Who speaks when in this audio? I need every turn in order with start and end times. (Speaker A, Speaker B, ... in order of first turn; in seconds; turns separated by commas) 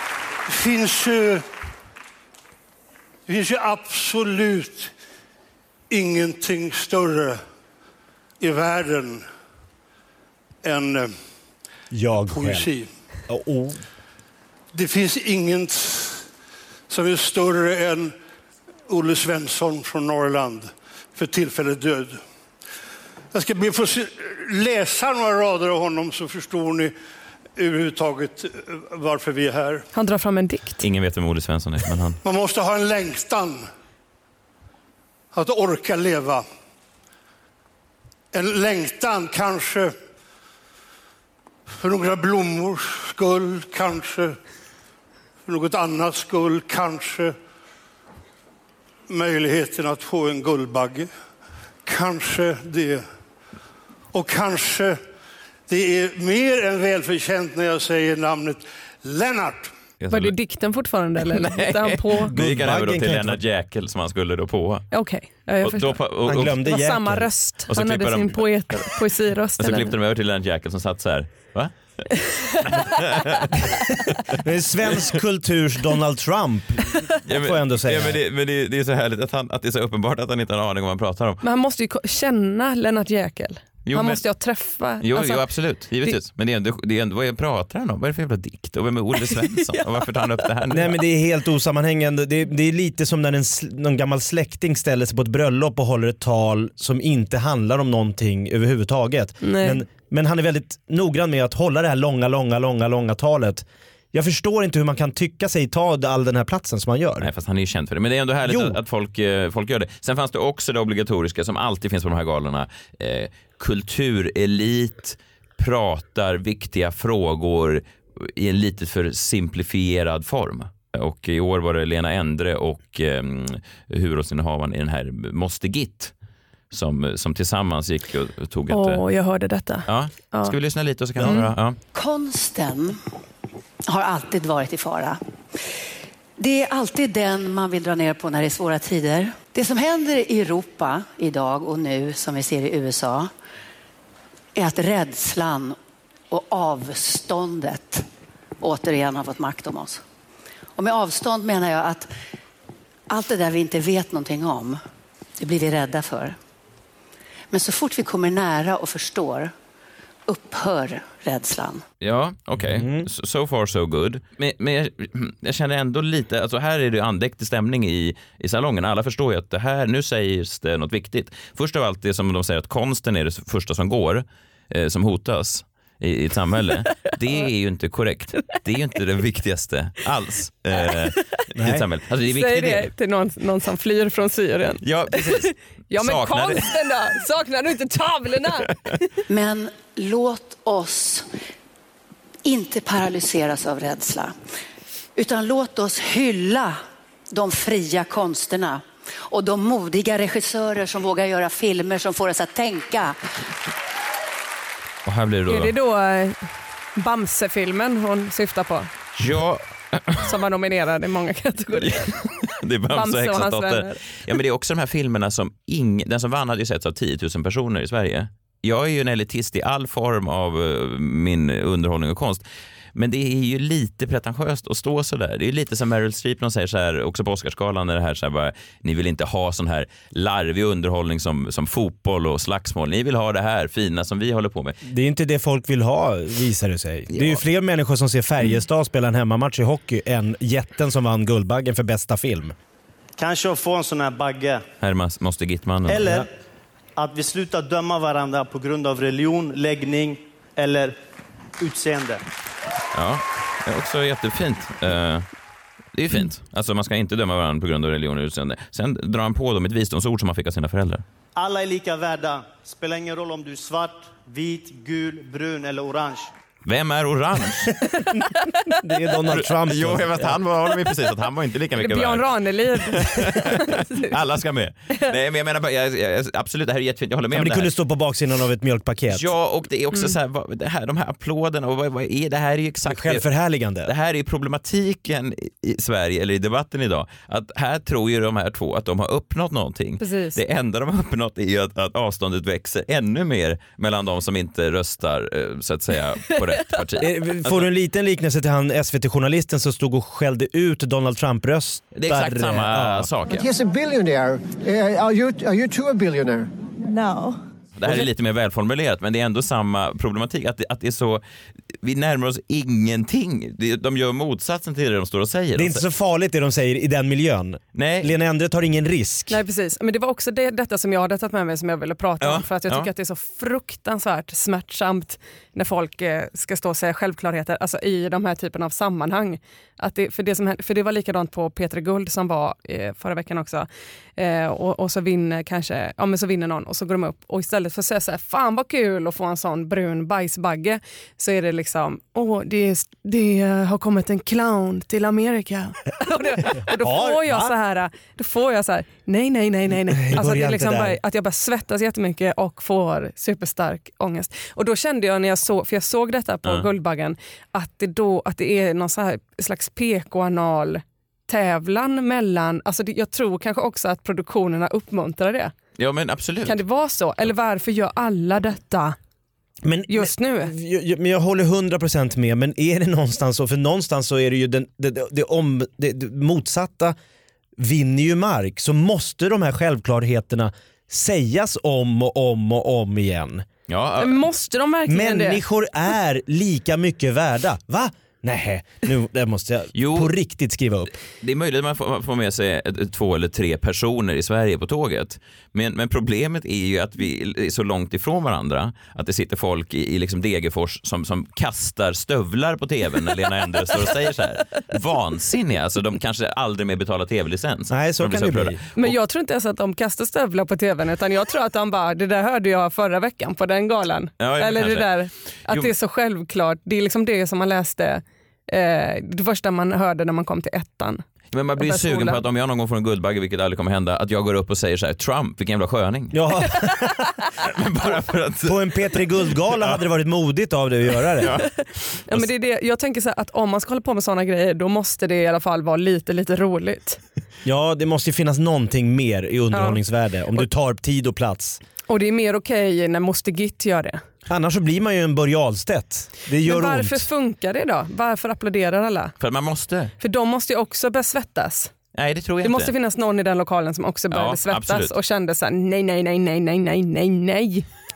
Speaker A: 0.5-1.4, Speaker A: 3.3-4.9, Speaker A: 5.9-7.4, Speaker A: 8.4-9.3, Speaker A: 10.6-11.1, Speaker B: 11.9-12.7, Speaker A: 12.3-12.9, Speaker B: 13.3-13.8, Speaker A: 14.7-16.3, Speaker A: 16.9-18.1, Speaker A: 18.9-22.2, Speaker A: 23.3-26.9, Speaker A: 27.6-29.9, Speaker C: 29.9-30.8, Speaker D: 30.8-32.2, Speaker A: 32.2-33.6, Speaker A: 35.3-36.5, Speaker A: 38.3-39.9, Speaker A: 41.7-44.4, Speaker A: 45.5-47.4, Speaker A: 49.1-51.1, Speaker A: 51.9-53.0, Speaker A: 54.1-55.0, Speaker A: 55.7-59.7, Speaker D: 60.0-60.4, Speaker C: 60.1-62.3, Speaker D: 61.2-64.9, Speaker B: 62.3-63.4, Speaker C: 64.9-69.9, Speaker D: 65.6-66.6, Speaker B: 66.2-67.3, Speaker D: 67.7-68.9, Speaker D: 69.6-73.9, Speaker B: 74.4-78.2, Speaker D: 77.3-81.4, Speaker C: 81.4-85.5, Speaker D: 83.9-84.2, Speaker D: 85.0-91.0, Speaker B: 90.7-107.3, Speaker C: 99.4-99.8, Speaker D: 107.2-126.1, Speaker B: 108.4-108.8, Speaker D: 126.7-129.0, Speaker C: 128.7-130.5, Speaker D: 129.9-131.8, Speaker C: 131.2-131.5, Speaker E: 131.9-133.0, Speaker E: 133.9-135.2, Speaker E: 136.4-143.3, Speaker E: 144.6-145.8, Speaker E: 146.3-148.1, Speaker E: 148.6-150.0, Speaker E: 150.8-152.1, Speaker E: 153.1-154.8, Speaker E: 155.4-156.4, Speaker E: 157.5-159.5, Speaker E: 160.3-161.8, Speaker D: 162.0-182.9, Speaker B: 162.6-163.1, Speaker B: 181.6-181.8, Speaker C: 182.3-189.2, Speaker D: 184.8-187.0, Speaker E: 189.3-191.3, Speaker E: 192.4-194.3, Speaker E: 195.2-196.8, Speaker E: 197.3-203.2, Speaker D: 205.1-205.7, Speaker C: 205.5-206.4, Speaker C: 207.0-208.9, Speaker D: 209.2-210.3, Speaker C: 210.2-212.3, Speaker D: 211.8-222.4, Speaker C: 212.9-214.0, Speaker D: 222.9-234.8, Speaker B: 234.8-242.6, Speaker D: 237.1-237.4, Speaker F: 243.2-244.6, Speaker D: 244.8-246.1, Speaker F: 245.9-246.3, Speaker F: 247.0-251.0, Speaker F: 251.6-252.2, Speaker D: 252.9-255.3, Speaker D: 255.9-261.0, Speaker F: 261.4-266.3, Speaker D: 266.6-267.7, Speaker B: 268.7-270.4, Speaker D: 269.3-277.7, Speaker C: 271.8-274.1, Speaker B: 277.3-279.3, Speaker D: 279.1-283.3, Speaker B: 282.9-283.9, Speaker D: 283.9-297.7, Speaker C: 290.0-290.4, Speaker B: 297.0-303.1, Speaker D: 301.9-303.5, Speaker G: 303.3-306.5, Speaker F: 306.9-307.3, Speaker D: 307.8-311.2, Speaker D: 311.8-315.8, Speaker B: 315.6-319.4, Speaker D: 317.8-318.1, Speaker C: 319.3-365.5, Speaker D: 322.2-322.9, Speaker B: 346.6-347.5, Speaker B: 349.9-351.0, Speaker D: 365.8-366.6, Speaker C: 366.4-369.0, Speaker B: 369.6-377.0, Speaker C: 369.9-370.5, Speaker B: 377.6-383.5, Speaker D: 383.7-384.2, Speaker C: 384.0-385.4, Speaker B: 384.9-390.9, Speaker D: 389.8-390.1, Speaker D: 391.2-408.9, Speaker B: 407.7-408.6, Speaker C: 408.8-421.0, Speaker D: 414.2-414.9, Speaker D: 415.4-415.7, Speaker D: 421.3-426.6, Speaker C: 421.6-422.2, Speaker B: 426.1-427.1, Speaker D: 427.4-429.8, Speaker B: 428.5-431.4, Speaker D: 431.2-431.5, Speaker C: 431.3-437.0, Speaker B: 437.4-441.6, Speaker C: 439.5-439.8, Speaker C: 441.9-444.0, Speaker B: 444.3-447.1, Speaker C: 446.4-449.1, Speaker D: 449.2-449.9, Speaker C: 450.0-451.7, Speaker D: 451.9-452.7, Speaker C: 452.4-457.7, Speaker D: 454.1-454.9